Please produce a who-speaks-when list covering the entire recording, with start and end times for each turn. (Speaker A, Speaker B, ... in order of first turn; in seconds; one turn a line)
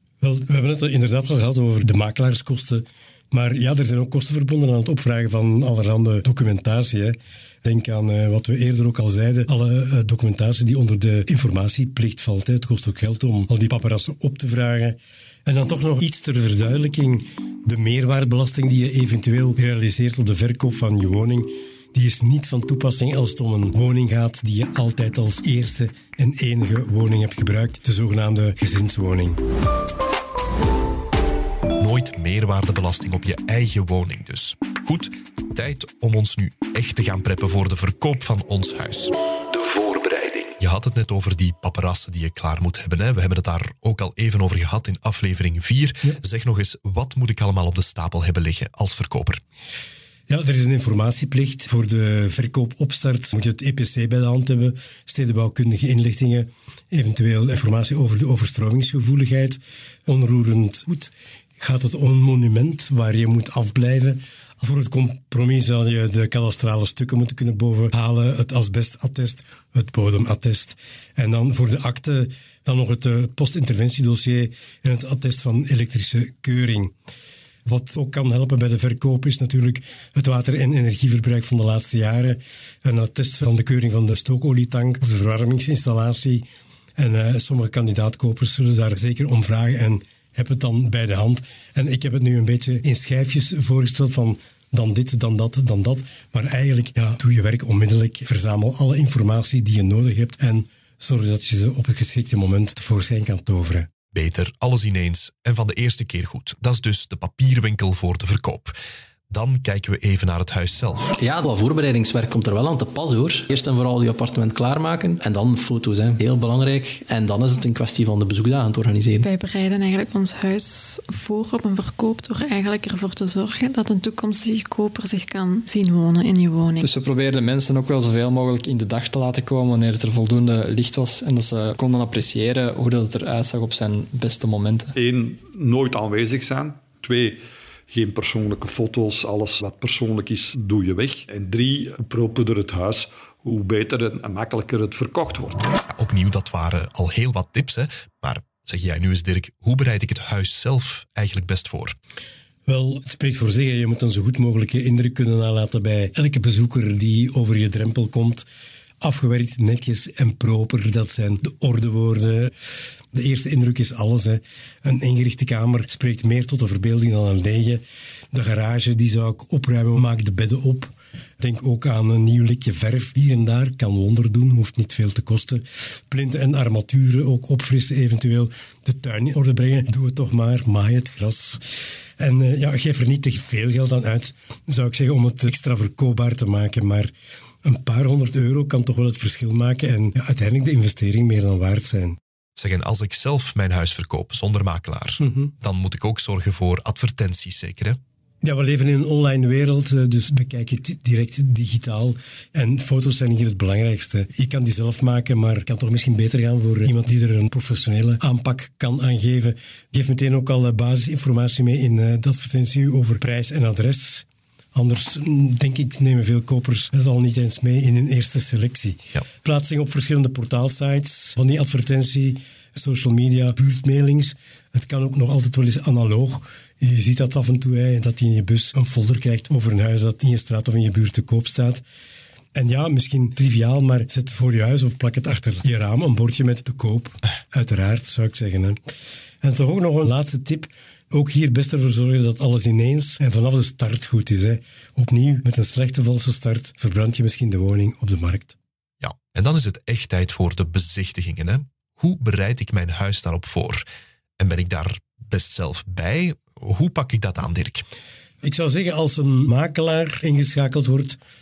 Speaker A: 0.2-29.4
Speaker B: 31.8-39.1
Speaker B: 40.6-49.4
Speaker A: 50.3-76.9
Speaker A: 77.7-86.5
Speaker A: 87.0-103.9
Speaker B: 104.1-108.8
Speaker B: 109.3-111.1
Speaker C: 111.2-119.2
Speaker D: 119.2-126.9
Speaker E: 126.8-134.9
Speaker F: 134.9-137.4
Speaker F: 137.9-145.7
Speaker B: 145.9-151.9
Speaker A: 152.7-158.5
Speaker A: 159.0-162.6
Speaker A: 163.1-181.6
Speaker A: 182.2-187.1
Speaker A: 187.6-192.2
Speaker B: 192.6-198.0
Speaker A: 195.2-195.5
Speaker A: 198.4-231.8
Speaker A: 232.5-238.8
Speaker A: 239.4-248.6
Speaker B: 249.0-253.8
Speaker B: 254.4-257.8
Speaker A: 258.4-261.2